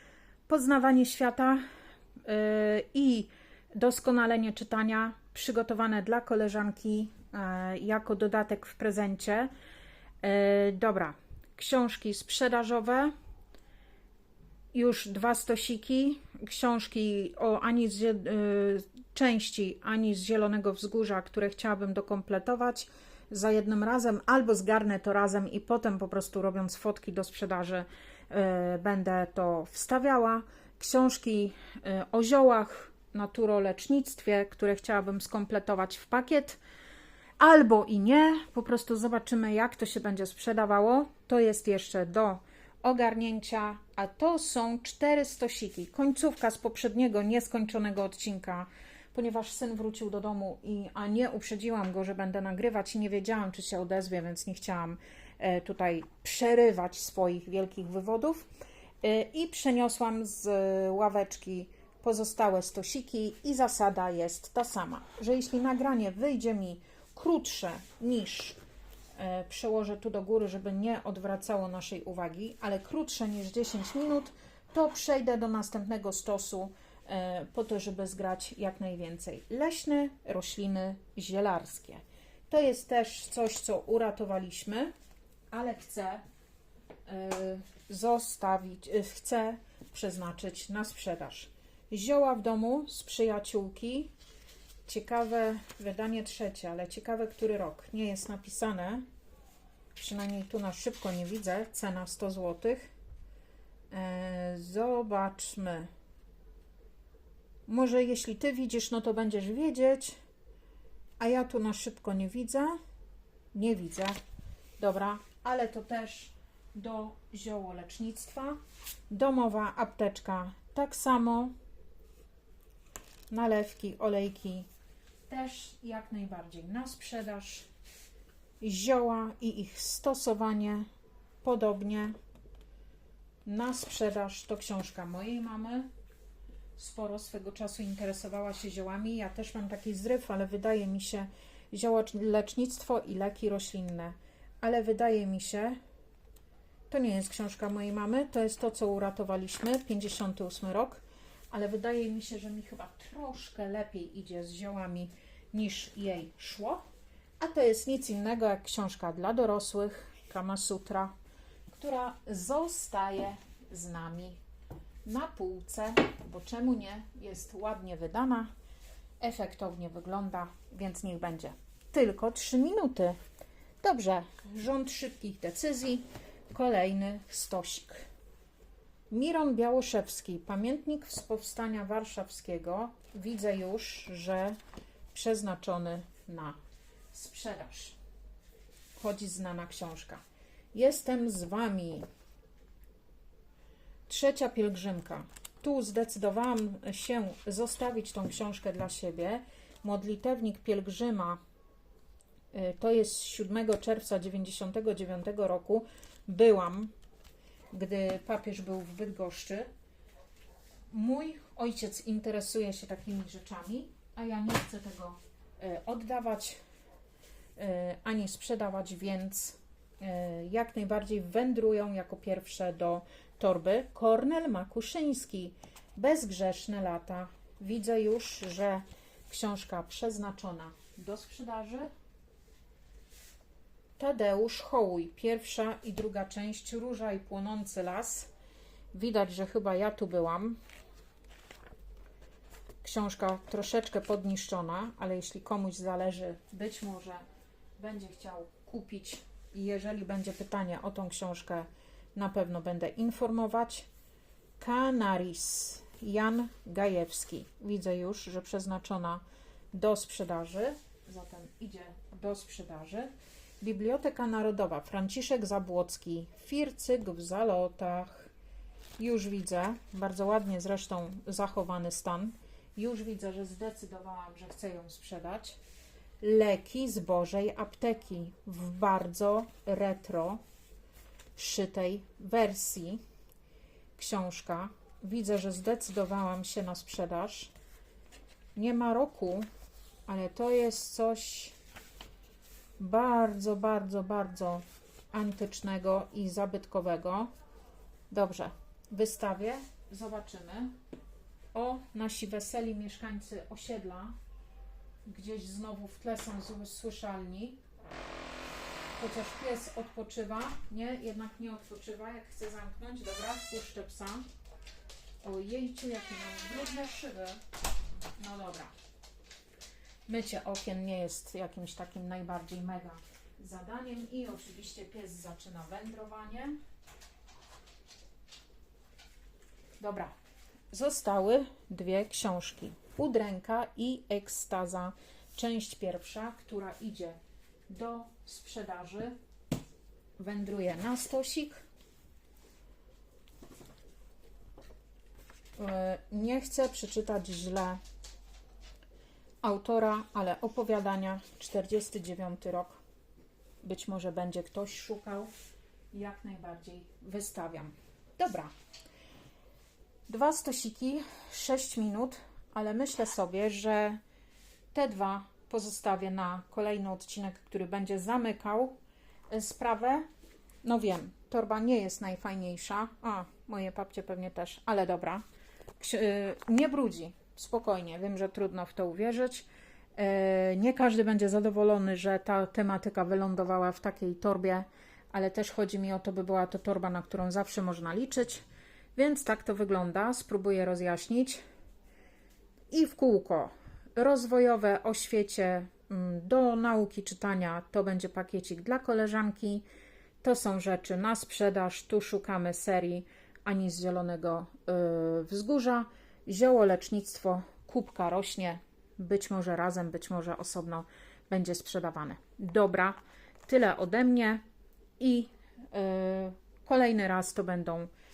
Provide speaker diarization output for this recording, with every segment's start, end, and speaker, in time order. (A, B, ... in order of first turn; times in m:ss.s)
0:00.5-0:01.6 A
0:02.2-0:09.5 A
0:10.2-0:13.1 A
0:14.7-0:36.6 A
0:37.4-0:58.5 A
0:59.0-1:08.6 A
1:09.2-1:24.9 A
1:25.5-1:26.2 A
1:27.1-1:34.1 A
1:34.9-1:39.0 A
1:40.0-1:42.9 A
1:43.9-1:45.9 A
1:47.7-1:50.2 A
1:51.2-1:52.8 A
1:53.5-1:54.2 A
1:54.8-1:58.6 A
1:59.1-2:01.5 A
2:03.3-2:04.7 A
2:05.3-2:07.7 A
2:08.6-2:10.9 A
2:11.4-2:12.2 A
2:13.4-2:15.9 A
2:16.8-2:25.8 A
2:26.9-2:36.8 A
2:37.4-2:41.1 A
2:41.7-2:44.4 A
2:45.0-2:48.5 A
2:49.2-2:53.2 A
2:53.8-2:58.0 A
2:59.1-3:04.6 A
3:05.1-3:06.6 A
3:07.1-3:08.0 A
3:09.0-3:10.2 A
3:10.7-3:12.1 A
3:14.1-3:21.4 A
3:22.5-3:26.9 A
3:27.7-3:29.7 A
3:30.9-3:36.6 A
3:37.6-3:51.9 A
3:54.0-3:58.3 A
3:58.9-4:00.6 A
4:02.8-4:07.2 A
4:07.8-4:13.9 A
4:14.6-4:28.3 A
4:29.0-4:35.6 A
4:36.2-4:40.4 A
4:41.4-4:43.0 A
4:44.0-4:47.5 A
4:48.6-4:49.5 A
4:50.1-4:51.6 A
4:52.8-4:57.3 A
4:58.1-5:00.7 A
5:01.5-5:04.1 A
5:05.1-5:07.6 A
5:09.0-5:14.2 A
5:15.2-5:17.4 A
5:18.2-5:18.7 A
5:20.1-5:26.6 A
5:29.8-5:30.1 A
5:30.7-5:37.2 A
5:37.7-5:39.2 A
5:40.2-5:41.6 A
5:45.6-5:47.8 A
5:49.4-5:52.8 A
5:53.6-5:55.3 A
5:55.9-5:58.5 A
6:00.1-6:04.0 A
6:04.7-6:08.8 A
6:09.3-6:10.0 A
6:10.6-6:15.2 A
6:15.8-6:28.4 A
6:29.0-6:31.4 A
6:32.7-6:39.6 A
6:40.2-6:54.4 A
6:55.0-6:57.9 A